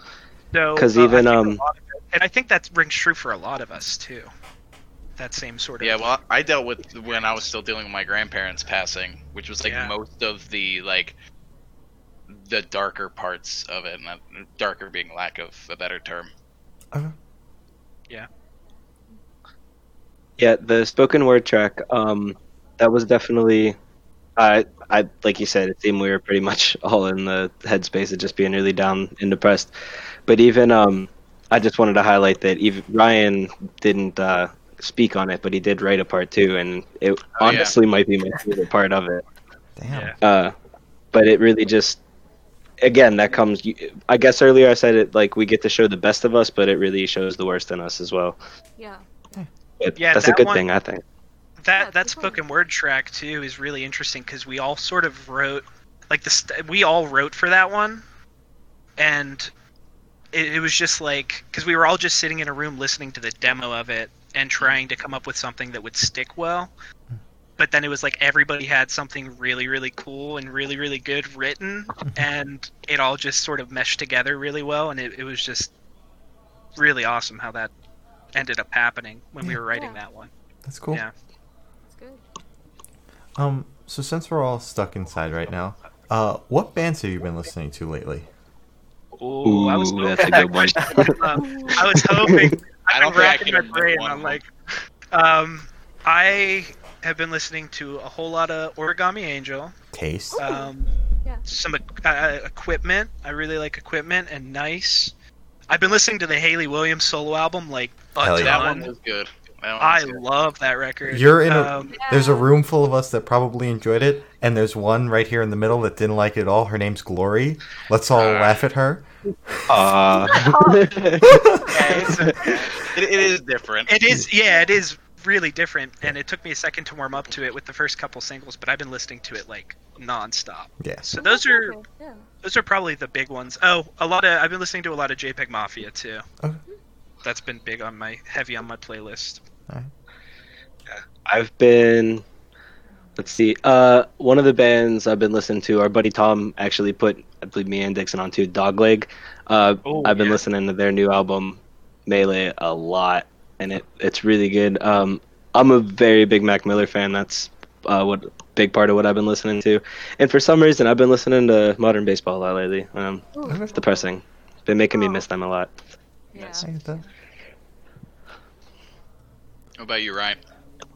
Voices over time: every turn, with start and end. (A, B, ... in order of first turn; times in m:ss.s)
0:00.5-0:04.3 A
0:00.8-0:01.6 B
0:05.2-0:06.0 A
0:05.8-0:11.2 C
0:09.6-0:09.9 A
0:12.3-0:16.3 C
0:20.4-0:23.8 B
0:24.4-0:29.7 B
0:30.3-0:39.2 B
0:37.4-0:37.7 C
0:39.8-0:40.2 D
0:39.9-0:40.2 A
0:40.2-0:40.5 B
0:41.1-0:42.0 B
0:42.8-0:48.4 B
0:48.8-0:49.0 E
0:49.8-0:51.0 B
0:50.0-0:50.6 A
0:51.6-0:58.0 A
0:51.8-0:52.4 E
0:59.0-0:59.5 A
1:00.3-1:06.7 A
1:07.6-1:15.7 A
1:16.8-1:17.7 A
1:18.3-1:20.3 A
1:19.7-1:20.0 E
1:20.6-1:21.0 D
1:21.9-1:22.2 E
1:23.4-1:28.3 D
1:29.2-1:34.5 A
1:29.4-1:32.6 B
1:31.4-1:31.8 E
1:32.9-1:34.4 C
1:35.1-1:39.8 A
1:39.9-1:40.4 D
1:40.3-1:40.7 E
1:40.4-1:40.9 A
1:41.5-1:45.1 A
1:45.7-1:48.9 A
1:48.2-1:48.7 D
1:48.4-1:50.2 C
1:49.8-1:51.9 A
1:51.1-1:59.1 D
1:51.9-1:52.5 E
1:58.2-1:58.6 C
1:59.7-2:02.5 B
2:00.1-2:02.6 E
2:01.2-2:01.6 D
2:01.7-2:02.7 A
2:02.9-2:03.9 C
2:03.9-2:11.8 A
2:04.5-2:04.7 E
2:10.8-2:11.1 D
2:11.2-2:12.3 E
2:12.4-2:16.2 A
2:17.2-2:19.4 A
2:20.9-2:22.2 B
2:23.2-2:45.7 B
2:29.8-2:30.4 A
2:43.3-2:44.0 E
2:43.5-2:43.8 D
2:44.9-2:45.2 E
2:46.3-2:47.0 E
2:46.6-2:47.1 D
2:49.8-2:50.4 C